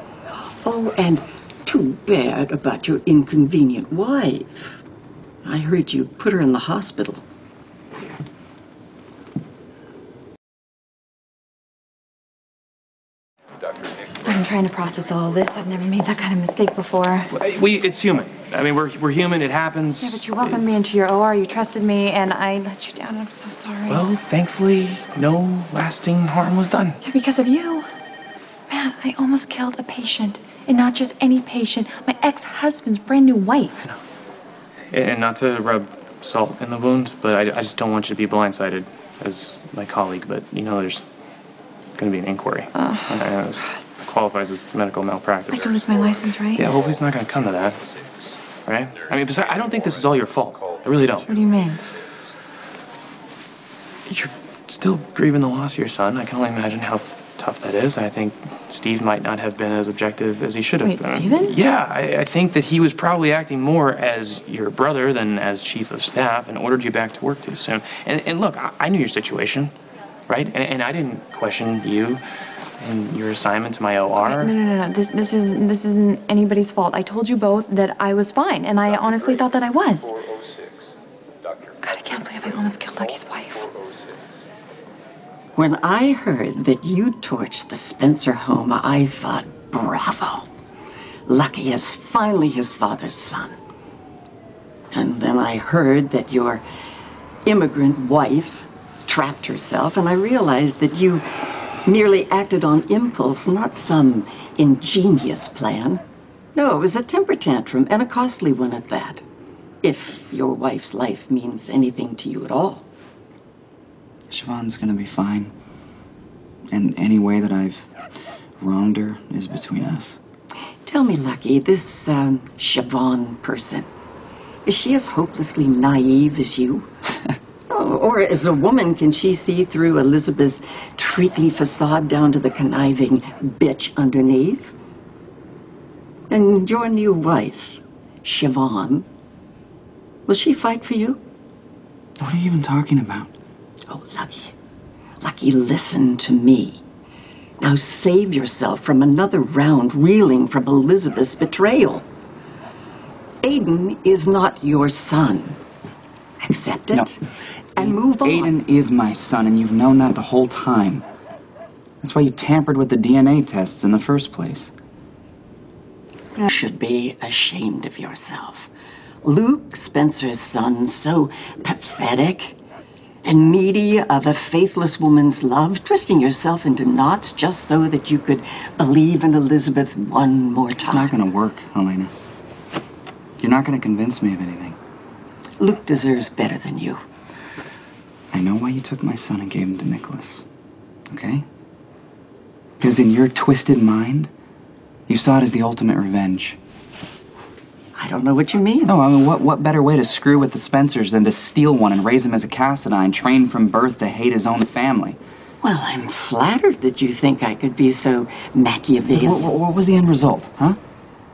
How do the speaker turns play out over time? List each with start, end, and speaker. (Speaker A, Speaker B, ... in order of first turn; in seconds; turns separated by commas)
Speaker A: 0.3-4.8, Speaker A: 5.4-7.2, Speaker B: 14.2-17.3, Speaker C: 17.3-20.6, Speaker B: 20.0-24.0, Speaker C: 23.9-27.0, Speaker B: 27.0-27.9, Speaker B: 28.7-33.8, Speaker C: 34.9-41.0, Speaker C: 42.0-45.8, Speaker B: 42.7-43.2, Speaker B: 45.5-46.7, Speaker C: 46.5-47.8, Speaker C: 48.6-51.3, Speaker B: 51.2-51.8, Speaker C: 54.1-69.7, Speaker B: 60.8-61.6, Speaker C: 70.3-72.2, Speaker C: 72.8-74.5, Speaker B: 74.2-80.2, Speaker B: 81.8-83.8, Speaker A: 85.5-90.5, Speaker A: 91.2-93.6, Speaker A: 94.9-96.6, Speaker A: 97.4-106.0, Speaker A: 106.5-109.2, Speaker A: 109.8-112.8, Speaker D: 114.3-115.5, Speaker D: 116.7-117.9, Speaker D: 118.6-120.2, Speaker A: 120.8-123.9, Speaker A: 124.7-126.9, Speaker A: 127.7-134.7, Speaker A: 136.3-139.1, Speaker A: 140.3-141.2, Speaker D: 142.2-143.3, Speaker A: 143.9-144.5, Speaker A: 145.2-146.8, Speaker A: 147.6-152.1, Speaker A: 153.4-155.6, Speaker A: 156.4-157.2, Speaker A: 157.8-158.5, Speaker D: 157.8-161.0, Speaker D: 162.0-164.7, Speaker A: 166.4-168.7, Speaker A: 169.2-172.6, Speaker A: 173.2-181.1, Speaker D: 180.8-182.1, Speaker D: 183.4-184.8, Speaker A: 185.6-187.0, Speaker D: 188.3-190.4, Speaker D: 191.1-191.4, Speaker D: 192.8-194.3, Speaker D: 195.1-196.6, Speaker A: 197.9-198.9, Speaker D: 198.8-205.2, Speaker A: 205.6-209.5, Speaker D: 209.1-210.8